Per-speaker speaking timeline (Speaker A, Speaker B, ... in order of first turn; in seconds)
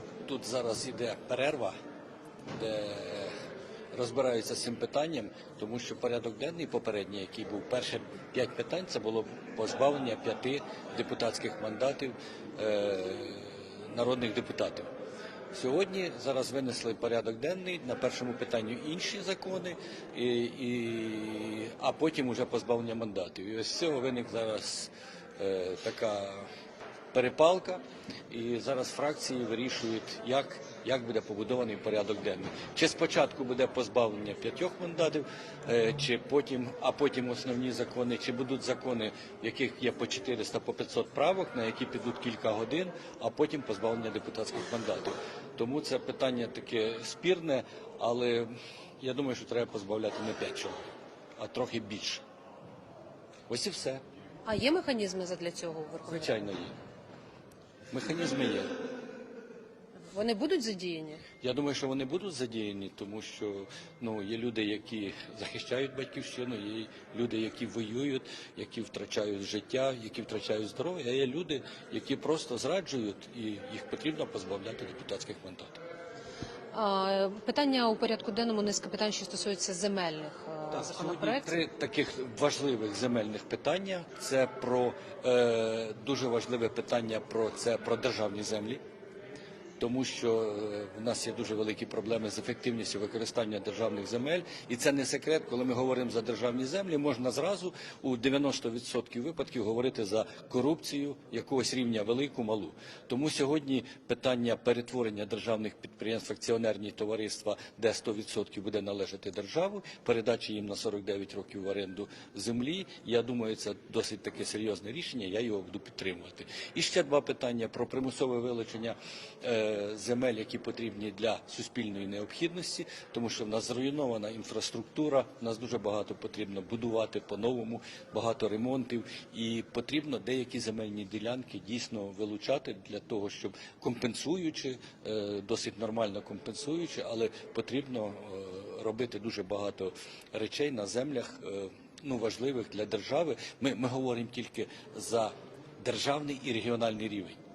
Speaker A: 0.2-1.7, 2.6-3.3, 3.9-14.9, 15.5-26.4, 27.1-50.9, 51.4-52.2, 53.5-54.0, 56.0-56.8, 57.9-58.7, 61.4-75.8, 80.7-88.8, 89.8-147.4
Speaker B: 54.5-56.3, 60.1-61.2, 76.7-81.6